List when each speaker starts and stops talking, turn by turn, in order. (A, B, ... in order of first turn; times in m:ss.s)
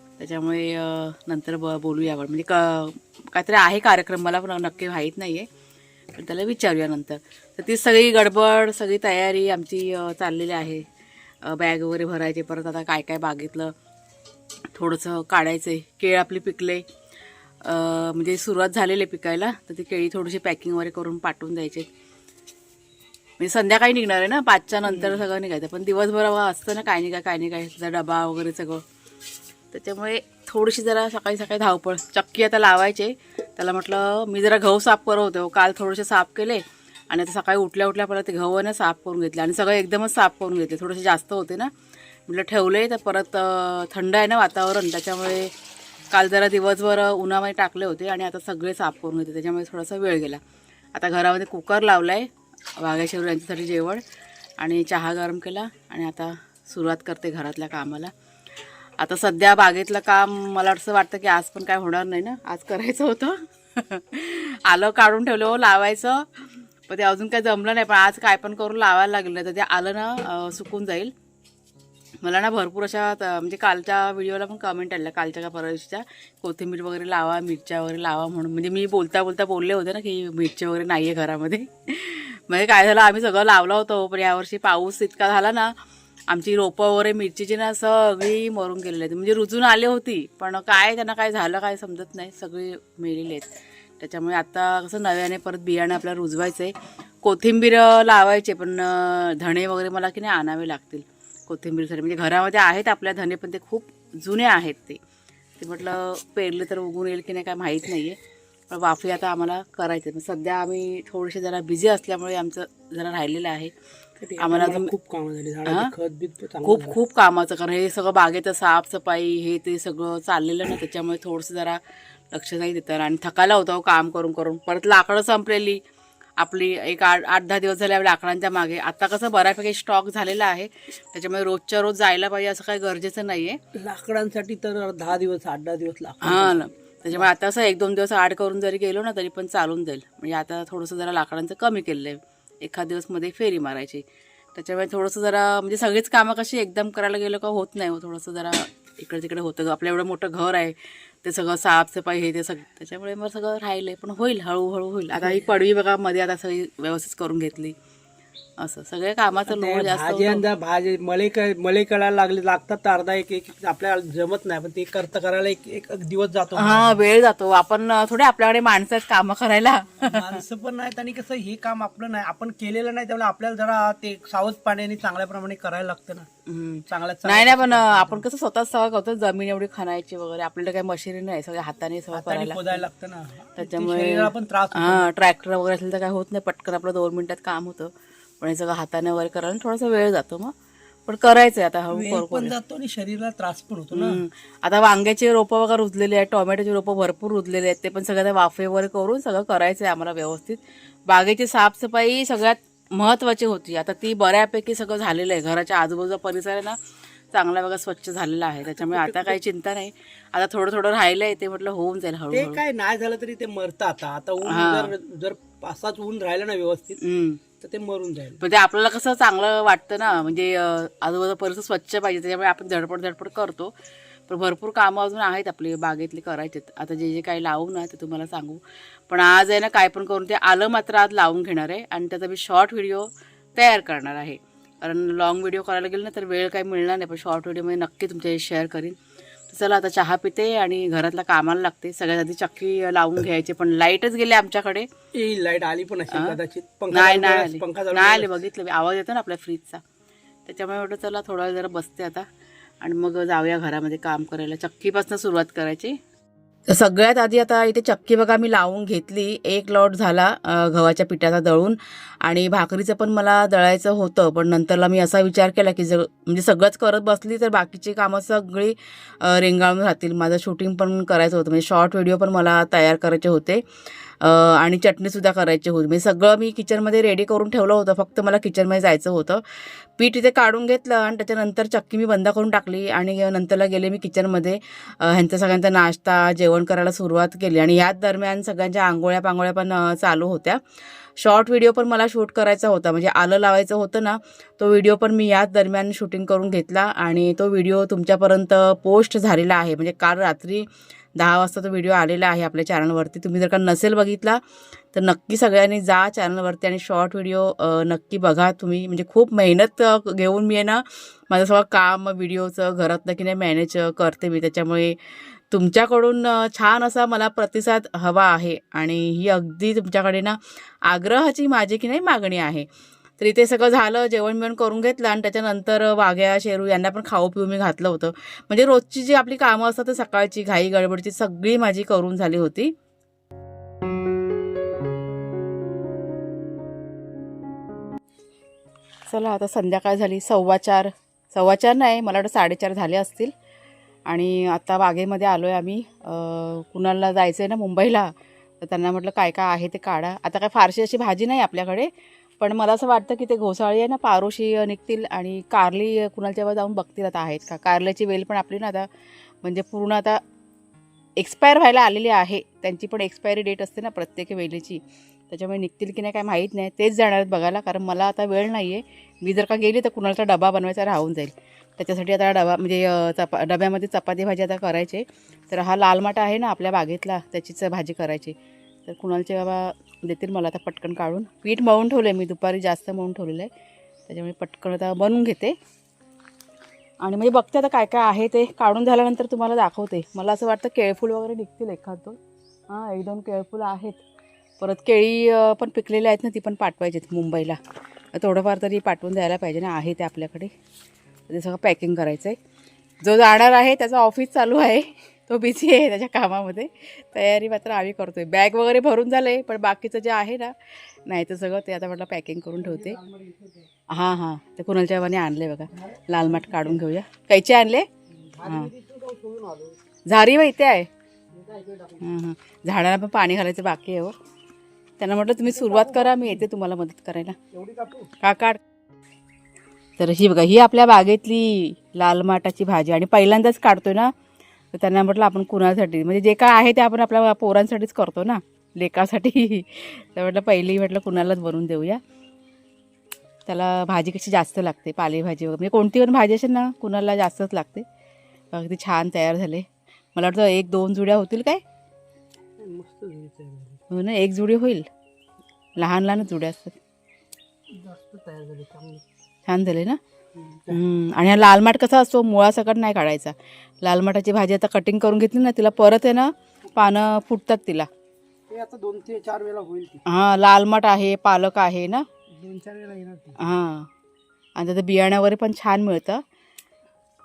0:00.2-0:05.5 A
0:06.1-0:10.9 A
0:11.4-0:13.7 A
0:14.7-0:16.8 A
0:17.6-0:21.9 A
0:23.4-0:28.8 A
0:29.7-0:41.7 A
0:42.3-0:45.5 A
0:46.1-0:50.4 A
0:51.0-0:54.0 A
0:54.6-0:58.1 A
0:59.0-1:11.1 A
1:12.2-1:25.7 A
1:26.3-1:45.0 A
1:45.6-1:48.2 A
1:48.7-1:53.7 A
1:54.2-1:57.0 B
1:54.4-1:54.9 A
1:55.6-1:55.9 A
1:56.6-2:01.8 A
2:02.3-2:05.8 A
2:06.4-2:13.6 A
2:13.7-2:17.3 B
2:16.2-2:24.0 A
2:24.6-2:37.8 A
2:38.6-2:40.4 A
2:39.5-2:47.0 B
2:46.6-2:50.4 A
2:50.0-2:56.3 B
2:56.5-3:02.8 A
2:56.9-2:58.2 B
3:02.1-3:05.1 B
3:03.6-3:10.5 A
3:11.1-3:12.6 A
3:11.9-3:14.2 B
3:13.9-3:26.8 A
3:27.3-3:32.6 A
3:28.8-3:29.4 B
3:32.3-3:37.0 B
3:34.4-3:34.9 A
3:37.0-3:37.4 A
3:37.6-3:38.4 B
3:38.4-3:43.7 A
3:44.3-3:59.0 A
3:59.5-4:04.9 A
4:05.1-4:08.4 B
4:06.1-4:06.4 A
4:06.9-4:09.8 A
4:10.5-4:12.3 A
4:12.8-4:16.0 A
4:16.7-4:33.6 A
4:34.2-4:50.6 A
4:51.2-5:04.4 A
5:04.9-5:22.7 A
5:23.2-5:32.7 A
5:39.1-5:43.3 A
5:44.1-5:58.9 A
5:59.4-6:00.2 A
6:01.2-6:23.5 A
6:24.1-6:25.6 A
6:27.0-6:32.2 A
6:32.7-6:34.0 A
6:34.6-6:37.6 A
6:38.1-6:40.5 A
6:41.3-6:42.4 A
6:43.0-6:53.0 A
6:52.6-6:53.7 B
6:53.9-6:57.9 A
6:55.8-6:56.8 B
6:58.1-6:59.8 B
6:58.4-6:58.7 A
7:00.1-7:00.9 A
7:01.3-7:02.1 B
7:02.0-7:04.2 A
7:05.0-7:07.4 A
7:05.4-7:06.4 B
7:07.5-7:08.1 B
7:08.2-7:08.6 A
7:10.0-7:14.1 A
7:14.7-7:22.0 A
7:23.5-7:27.9 A
7:28.5-7:31.6 A
7:32.6-7:33.8 B
7:33.9-7:34.9 A
7:35.8-7:36.8 A
7:37.7-7:39.0 B
7:39.5-7:40.0 A
7:40.4-7:40.8 B
7:40.7-7:47.9 A
7:48.5-7:50.0 B
7:50.1-7:52.1 A
7:52.4-7:53.4 B
7:53.4-7:53.9 A
7:54.6-7:56.2 A